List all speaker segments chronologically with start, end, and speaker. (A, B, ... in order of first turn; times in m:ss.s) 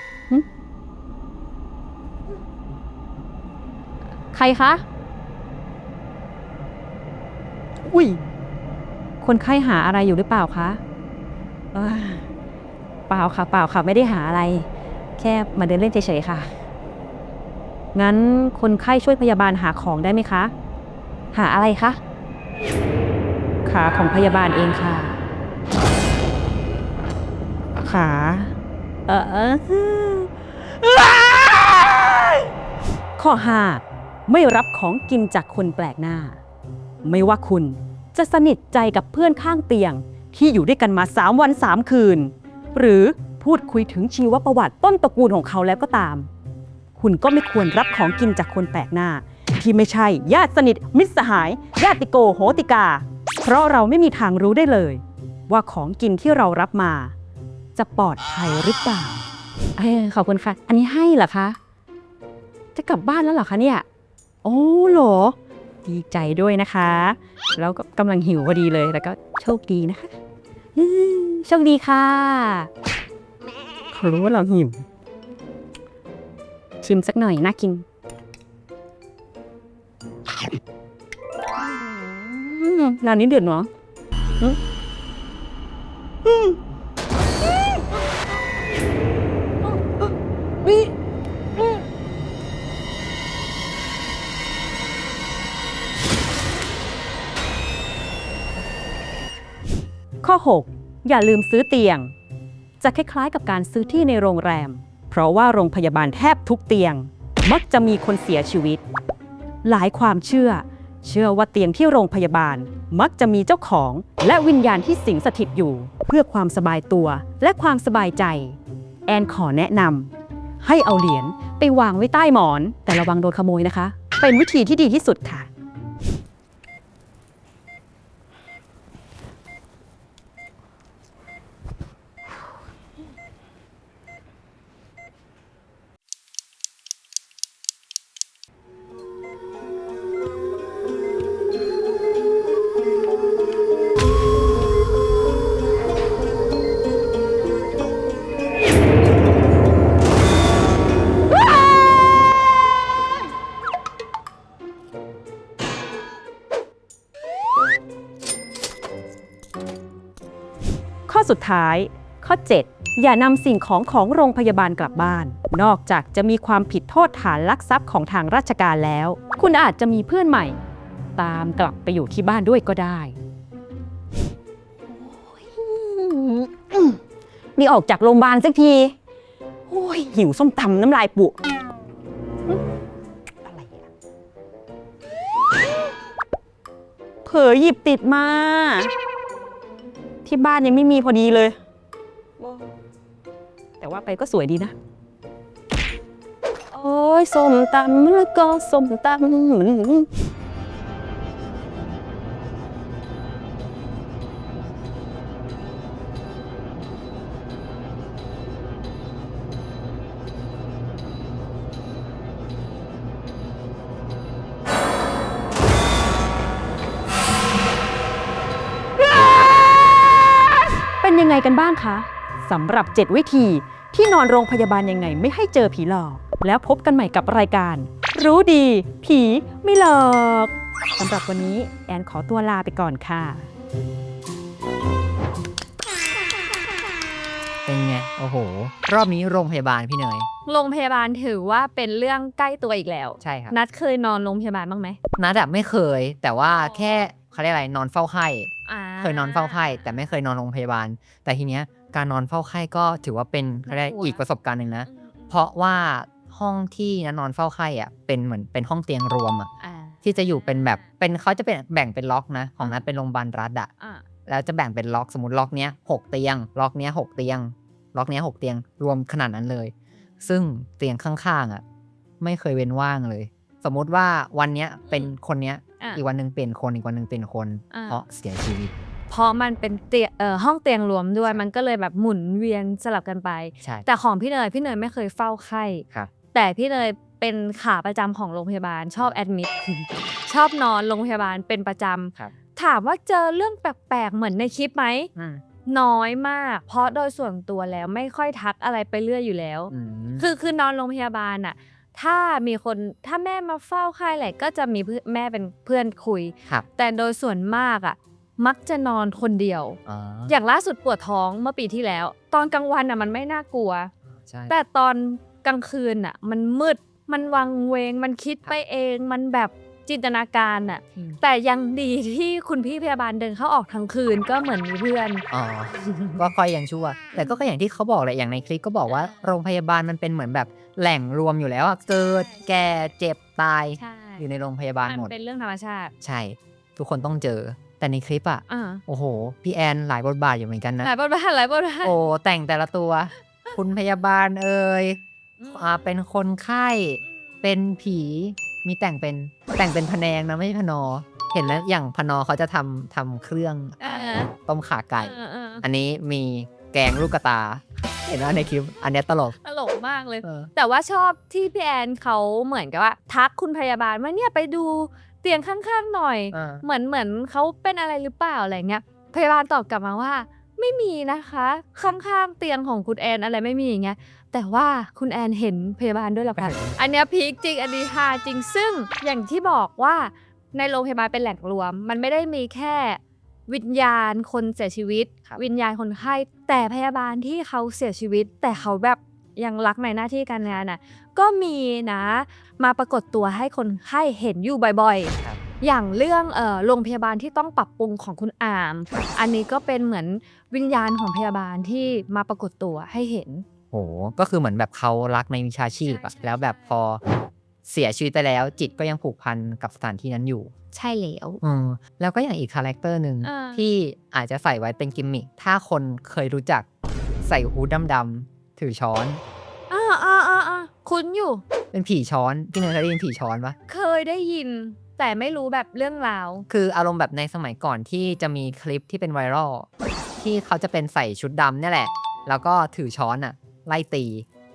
0:04.3-0:04.8 A
0:07.8-0:08.2 A
0:09.2-0:10.8 A
0:11.7-0:12.3 A
0:13.1-0:14.7 A
0:15.2-0:16.5 A
0:17.9-0:20.5 A
0:21.3-0:22.0 A
0:23.6-0:25.1 A
0:27.8-0:28.5 A
0:29.1-0:32.1 A
0:33.2-0:36.4 A
0:37.0-0:46.3 A
0:46.9-0:57.1 A
0:57.7-0:59.2 A
0:59.8-1:01.6 A
1:02.7-1:03.8 A
1:04.4-1:10.1 A
1:10.8-1:12.7 A
1:13.9-1:14.8 A
1:16.8-1:17.8 A
1:21.6-1:23.7 A
1:26.2-1:26.6 A
1:40.2-1:42.1 A
1:42.8-1:48.8 A
1:49.6-2:05.5 A
2:41.1-2:50.6 A
2:51.1-2:53.2 A
2:54.9-2:57.0 A
2:57.6-2:58.9 A
2:59.7-3:01.4 A
3:03.4-3:03.9 A
3:07.2-3:08.9 A
3:10.2-3:11.6 A
3:12.4-3:12.6 A
3:13.8-3:14.7 A
3:16.7-3:20.1 A
3:41.0-3:53.5 A
3:57.6-4:00.3 B
4:00.4-4:05.0 C
4:03.2-4:03.6 B
4:05.2-4:08.5 B
4:06.5-4:07.0 C
4:08.6-4:10.1 C
4:09.0-4:19.5 B
4:13.7-4:14.2 C
4:14.9-4:15.4 C
4:19.6-4:20.9 C
4:20.0-4:23.7 B
4:23.8-4:24.0 C
4:24.3-4:31.6 B
4:32.2-4:38.7 B
4:37.7-4:38.0 C
4:39.1-4:55.1 C
4:55.1-4:55.4 B
4:55.6-5:13.9 C
4:59.7-5:00.3 B
5:09.8-5:10.4 B
5:14.1-5:14.5 B
5:14.5-5:26.2 C
5:25.3-5:35.1 B
5:27.1-5:27.4 C
5:33.8-5:34.2 C
5:34.9-5:35.9 C
5:36.0-5:40.9 B
5:38.5-5:38.8 C
5:40.8-5:42.0 C
5:41.8-5:59.4 B
5:45.4-5:45.9 C
5:53.8-5:54.3 C
5:55.0-5:55.6 C
5:59.4-6:43.4 C
6:00.2-6:00.5 B
6:06.3-6:06.6 B
6:16.4-6:16.8 B
6:43.7-6:47.0 B
6:45.8-6:46.7 C
6:47.6-6:50.5 B
6:50.7-6:51.4 C
6:51.4-6:56.7 B
6:53.2-6:53.6 C
6:57.2-6:59.2 B
6:59.7-7:01.4 C
7:01.7-7:03.6 B
7:03.7-7:06.4 C
7:06.5-7:14.2 B